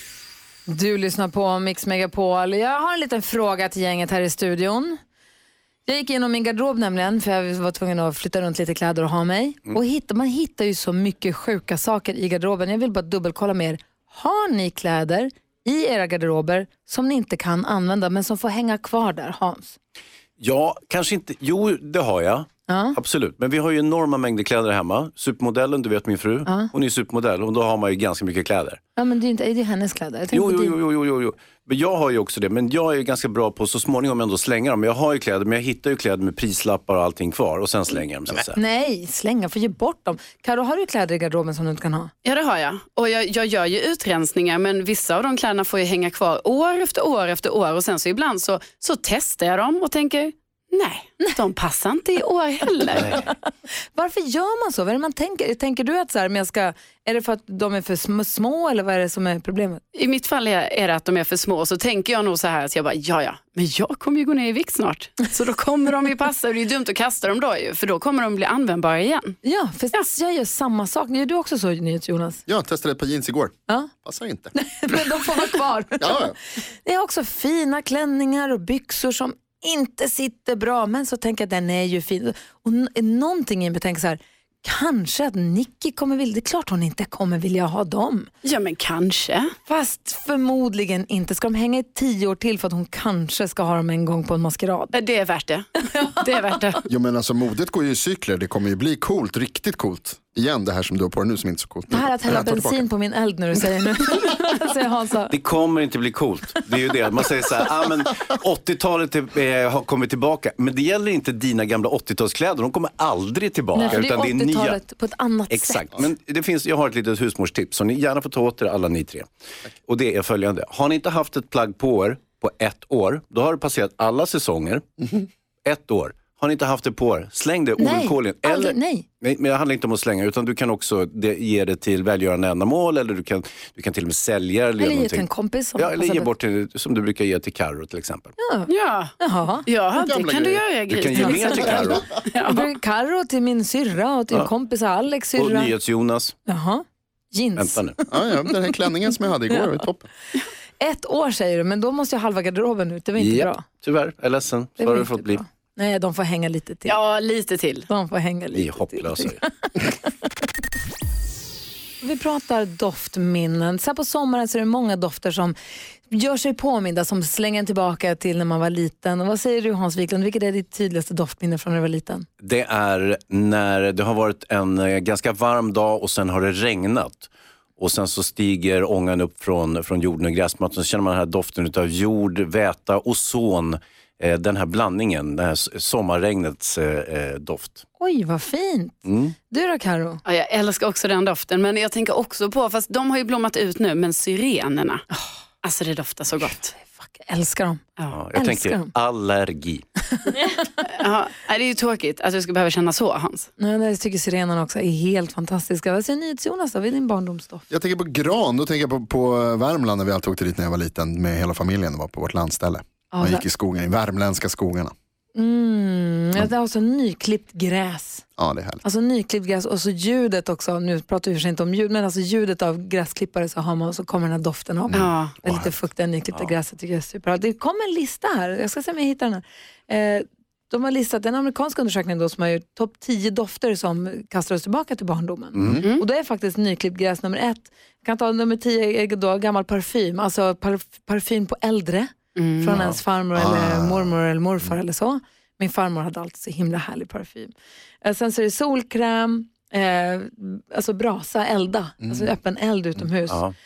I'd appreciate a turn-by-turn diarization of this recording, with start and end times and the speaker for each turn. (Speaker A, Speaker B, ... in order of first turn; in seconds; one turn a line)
Speaker A: 0.7-5.0
Speaker A: 5.8-19.8
Speaker B: 20.4-28.8
Speaker A: 22.7-23.0
Speaker A: 26.4-26.7
Speaker A: 28.9-30.8
Speaker B: 30.3-38.6
Speaker A: 38.5-42.1
Speaker C: 42.2-53.1
Speaker A: 52.8-59.8
Speaker B: 53.0-53.3
Speaker C: 59.9-69.3
Speaker A: 69.4-72.4
Speaker D: 72.5-75.0
Speaker A: 74.5-76.3
Speaker D: 76.0-76.3
Speaker A: 76.8-88.3
Speaker C: 88.4-89.5
Speaker A: 89.7-95.0
Speaker C: 94.9-96.8
Speaker A: 95.8-96.4
Speaker D: 96.9-102.9
Speaker A: 101.9-105.3
Speaker B: 105.3-114.8
Speaker A: 113.7-116.0
Speaker B: 115.5-119.3
Speaker B: 119.8-138.3
Speaker A: 127.8-129.1
Speaker A: 134.8-136.3
Speaker A: 138.4-139.7
Speaker C: 138.7-139.1
Speaker C: 139.7-142.6
Speaker D: 139.9-140.7
Speaker B: 140.9-142.1
Speaker A: 141.1-141.8
Speaker A: 142.4-145.7
Speaker B: 145.3-146.3
Speaker A: 146.4-147.9
Speaker B: 147.6-148.0
Speaker D: 148.1-150.1
Speaker A: 150.8-153.7
Speaker B: 153.2-155.4
Speaker A: 154.8-157.0
Speaker C: 156.8-157.9
Speaker A: 157.9-160.3
Speaker B: 158.5-159.4
Speaker A: 162.0-165.6
Speaker A: 166.1-172.2
Speaker B: 172.4-187.8
Speaker A: 188.0-190.2
Speaker B: 189.1-189.3
Speaker C: 190.2-195.0
Speaker C: 195.6-196.7
Speaker A: 196.8-197.8
Speaker B: 198.1-199.8
Speaker A: 198.3-198.9
Speaker A: 200.1-200.6
Speaker C: 200.8-203.5
Speaker A: 203.6-207.6
Speaker D: 207.7-214.9
Speaker A: 213.1-213.4
Speaker A: 215.3-218.2
Speaker D: 218.4-218.8
Speaker A: 218.8-253.4
Speaker D: 224.9-225.7
Speaker C: 224.9-225.3
Speaker B: 235.6-235.8
Speaker C: 242.3-242.8
Speaker D: 242.7-244.7
Speaker D: 252.0-252.3
Speaker B: 253.3-253.5